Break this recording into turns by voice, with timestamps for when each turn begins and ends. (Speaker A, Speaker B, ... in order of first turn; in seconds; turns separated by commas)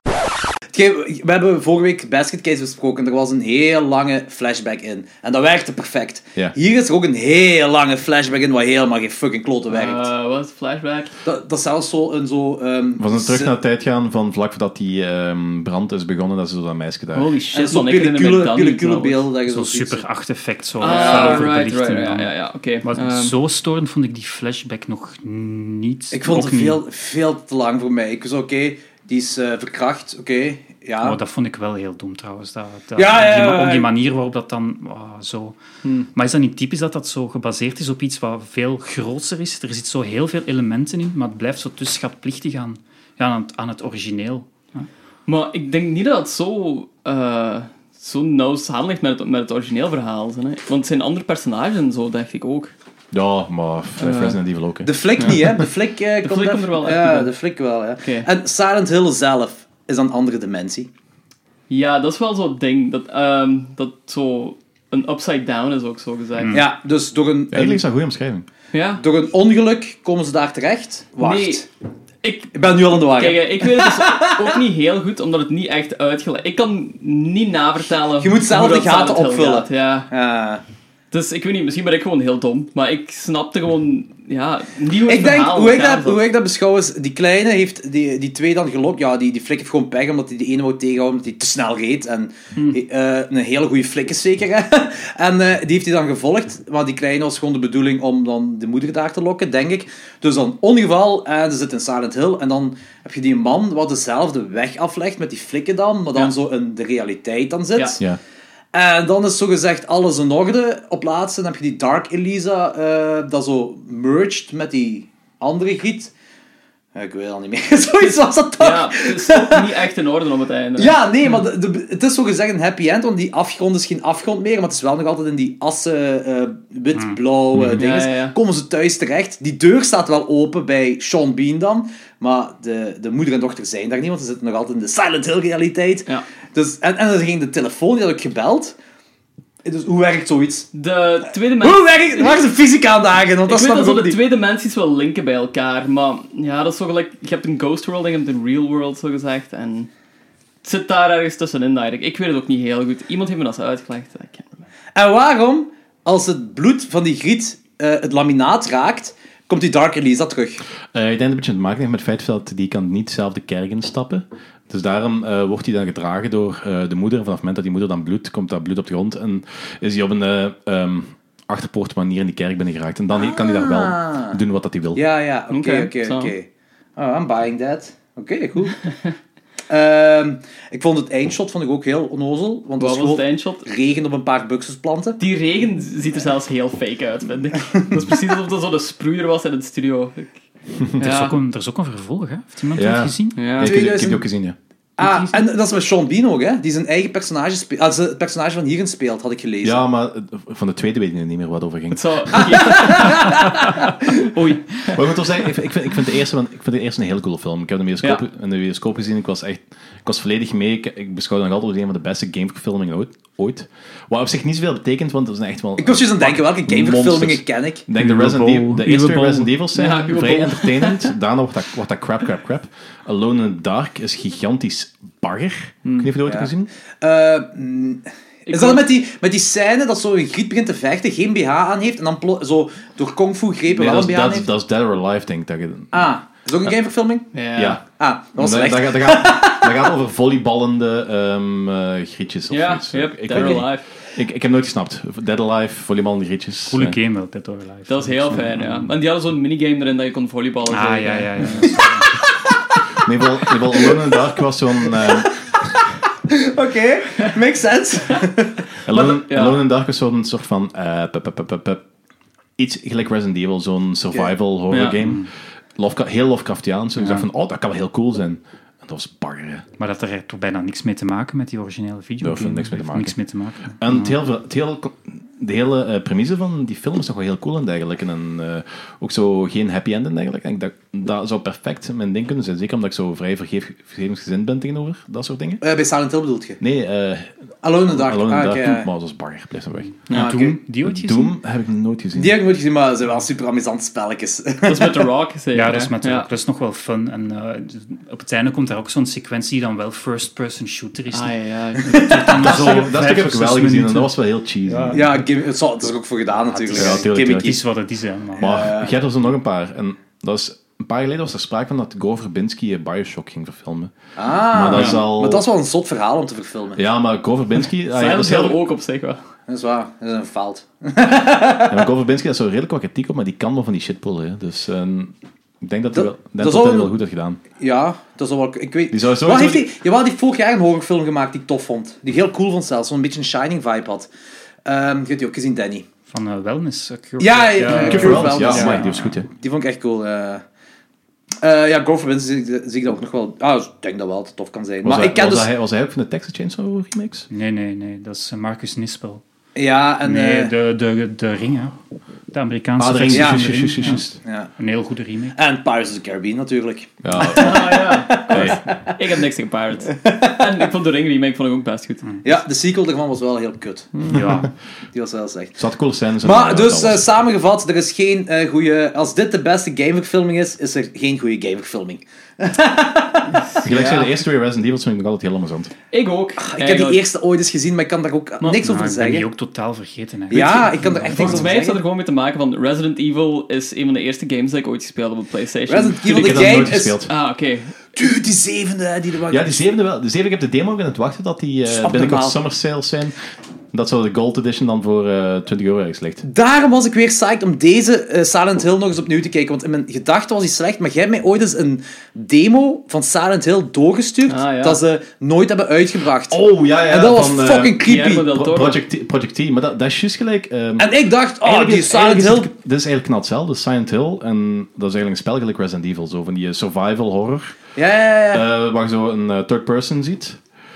Speaker A: 0.7-10.1, Speaker B: 9.7-11.1, Speaker A: 11.2-13.5, Speaker C: 13.0-17.3, Speaker B: 17.1-19.2, Speaker A: 17.5-20.0, Speaker D: 19.5-22.3, Speaker B: 20.8-23.3, Speaker A: 20.8-21.5, Speaker D: 22.8-26.8, Speaker A: 26.1-31.2, Speaker D: 31.0-35.6, Speaker A: 33.0-33.9, Speaker D: 36.1-44.9, Speaker B: 45.3-52.7, Speaker C: 53.1-55.5, Speaker B: 54.0-54.4, Speaker A: 54.8-60.9, Speaker B: 55.2-55.4, Speaker B: 56.2-57.3, Speaker B: 58.0-58.3, Speaker B: 61.7-66.6, Speaker D: 66.4-66.7, Speaker A: 66.5-67.8, Speaker C: 67.5-68.5, Speaker B: 68.7-69.0, Speaker A: 69.0-71.7, Speaker B: 71.2-71.6, Speaker B: 72.2-80.1, Speaker A: 72.5-74.5, Speaker A: 78.2-80.6, Speaker B: 81.1-86.2, Speaker A: 85.0-108.0, Speaker A: 108.7-116.1, Speaker A: 116.9-119.7, Speaker B: 118.6-121.0, Speaker A: 120.8-138.8, Speaker C: 127.5-127.8, Speaker B: 127.7-128.3, Speaker A: 139.6-140.7, Speaker B: 140.7-142.4, Speaker A: 141.6-144.2, Speaker B: 143.5-149.9, Speaker B: 150.6-154.5, Speaker A: 154.9-160.6, Speaker C: 160.9-175.0, Speaker A: 173.1-174.4, Speaker A: 174.9-178.8, Speaker B: 175.5-176.3, Speaker A: 179.7-185.2, Speaker B: 182.8-183.7, Speaker B: 185.2-190.4, Speaker A: 187.7-188.0, Speaker B: 191.0-191.4, Speaker D: 191.0-193.4, Speaker C: 192.8-194.6, Speaker B: 193.3-193.8, Speaker A: 193.6-194.2, Speaker A: 195.0-199.8, Speaker D: 195.0-195.4, Speaker C: 199.6-202.8, Speaker B: 201.9-205.0, Speaker A: 202.4-203.8, Speaker C: 204.9-226.7, Speaker A: 215.8-217.8, Speaker D: 217.9-219.5, Speaker B: 219.7-221.1, Speaker A: 226.2-234.5, Speaker B: 228.4-228.8, Speaker C: 233.7-236.1, Speaker A: 235.9-237.3, Speaker B: 237.3-237.8, Speaker C: 237.6-237.8, Speaker A: 237.9-239.9, Speaker C: 238.3-247.0, Speaker B: 242.5-243.8, Speaker D: 246.7-248.9, Speaker B: 247.9-251.7, Speaker D: 250.7-252.1, Speaker C: 253.0-255.3, Speaker A: 253.8-254.1, Speaker A: 254.9-255.3, Speaker A: 256.3-258.6, Speaker C: 258.9-261.8, Speaker B: 258.9-259.6, Speaker C: 262.6-269.6, Speaker B: 264.7-265.0, Speaker D: 265.0-265.3, Speaker D: 267.0-267.2, Speaker D: 269.8-274.1, Speaker C: 272.2-273.1, Speaker C: 273.8-285.6, Speaker A: 285.6-286.6, Speaker C: 286.6-287.3, Speaker A: 287.6-288.9, Speaker C: 287.9-290.1, Speaker D: 289.8-291.4, Speaker A: 290.1-290.6, Speaker C: 290.8-292.4, Speaker A: 292.1-295.1, Speaker B: 294.6-296.2, Speaker D: 295.5-304.1, Speaker B: 301.1-302.3, Speaker A: 301.9-302.4, Speaker C: 302.3-305.1, Speaker D: 304.6-305.2, Speaker A: 304.9-307.6, Speaker D: 306.5-308.5, Speaker C: 306.7-307.6, Speaker A: 308.4-308.9, Speaker C: 308.4-313.9, Speaker A: 314.1-316.8, Speaker C: 314.5-315.4, Speaker C: 316.8-318.6, Speaker B: 317.9-319.2, Speaker A: 319.5-321.8, Speaker C: 321.7-327.4, Speaker A: 325.9-326.9, Speaker A: 327.6-334.1, Speaker C: 328.9-329.7, Speaker A: 334.6-335.9, Speaker D: 336.1-339.2, Speaker A: 337.2-340.4, Speaker C: 337.7-339.3, Speaker A: 341.4-345.5, Speaker C: 344.8-347.3, Speaker D: 347.3-349.2, Speaker A: 349.5-350.5, Speaker D: 350.0-351.8, Speaker D: 352.3-355.4, Speaker C: 352.8-354.2, Speaker A: 353.1-353.5, Speaker A: 354.2-354.5, Speaker A: 355.3-358.9, Speaker C: 357.0-358.6, Speaker B: 357.2-362.0, Speaker A: 359.9-360.7, Speaker A: 362.2-363.9, Speaker D: 364.1-364.5, Speaker C: 364.1-364.4, Speaker A: 364.9-365.6, Speaker C: 365.6-367.1, Speaker A: 366.2-373.5, Speaker B: 373.5-374.1, Speaker C: 373.6-375.7, Speaker B: 375.9-377.0, Speaker A: 376.4-379.2, Speaker D: 378.6-381.5, Speaker A: 380.3-381.8, Speaker B: 380.3-387.8, Speaker A: 385.7-387.0, Speaker C: 386.1-387.1, Speaker A: 387.9-389.6, Speaker C: 389.3-393.1, Speaker A: 391.7-392.4, Speaker C: 393.7-396.2, Speaker A: 396.2-408.3, Speaker B: 404.2-404.8, Speaker C: 406.3-410.9, Speaker B: 407.8-408.8, Speaker A: 410.8-412.5, Speaker C: 411.4-417.6, Speaker A: 417.8-418.4, Speaker C: 418.3-420.4